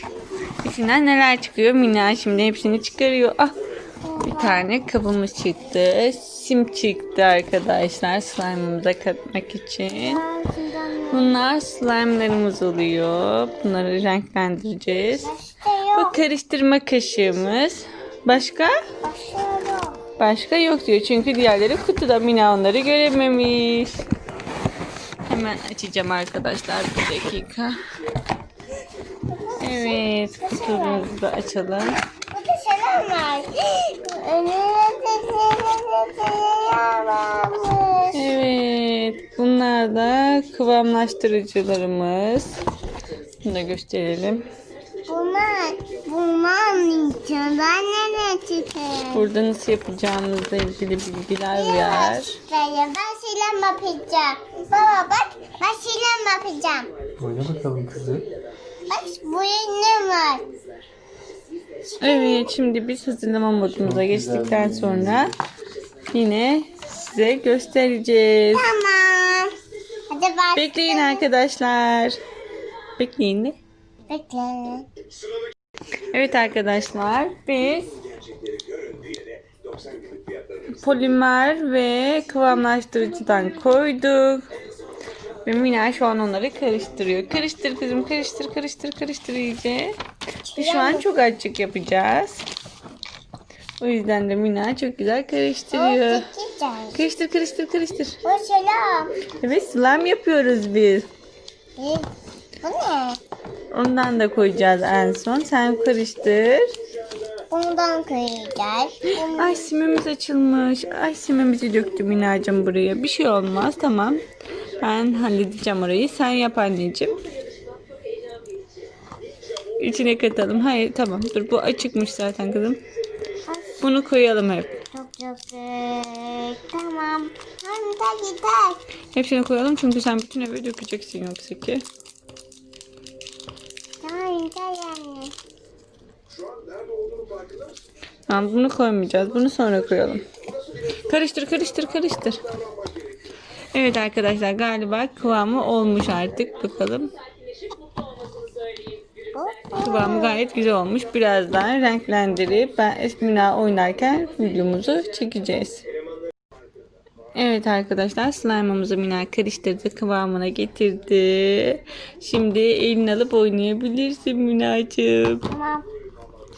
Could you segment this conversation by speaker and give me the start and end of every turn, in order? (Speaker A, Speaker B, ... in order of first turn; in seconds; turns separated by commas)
Speaker A: 0.6-3.5, Speaker B: 4.0-4.7, Speaker A: 4.2-10.2, Speaker B: 10.0-11.3, Speaker A: 11.1-15.3, Speaker B: 15.2-16.2, Speaker A: 15.9-18.7, Speaker B: 19.0-20.0, Speaker A: 20.2-24.0, Speaker A: 25.3-27.7, Speaker B: 29.3-31.1, Speaker A: 29.6-32.0, Speaker B: 32.3-38.3, Speaker A: 38.1-42.6, Speaker A: 43.4-44.4, Speaker B: 45.1-49.3, Speaker A: 49.1-52.4, Speaker B: 51.5-56.9, Speaker C: 57.2-58.3, Speaker B: 58.9-60.5, Speaker B: 62.0-62.5, Speaker A: 62.0-65.3, Speaker C: 63.8-65.3, Speaker A: 66.1-68.7, Speaker B: 68.5-69.5, Speaker B: 70.1-71.3, Speaker A: 70.5-72.2, Speaker A: 73.0-73.5, Speaker B: 74.1-74.9, Speaker A: 76.1-77.9, Speaker A: 80.7-84.5, Speaker A: 85.4-89.9, Speaker B: 90.4-91.1, Speaker A: 90.5-92.4, Speaker A: 93.8-96.2, Speaker B: 95.7-97.0, Speaker A: 96.9-98.2, Speaker B: 98.2-99.1, Speaker A: 99.4-101.1, Speaker B: 101.8-102.1, Speaker B: 102.6-103.2, Speaker A: 103.7-106.7, Speaker B: 107.5-109.7, Speaker A: 109.1-114.2, Speaker A: 114.8-117.2, Speaker A: 119.8-122.8, Speaker B: 123.5-124.0, Speaker A: 123.8-124.8, Speaker B: 124.9-128.8, Speaker A: 129.1-131.8, Speaker B: 134.0-135.3, Speaker A: 138.3-140.2, Speaker A: 141.0-142.4, Speaker A: 143.7-147.1, Speaker B: 149.3-150.4, Speaker A: 149.8-155.8, Speaker A: 157.3-165.4, Speaker B: 165.5-165.9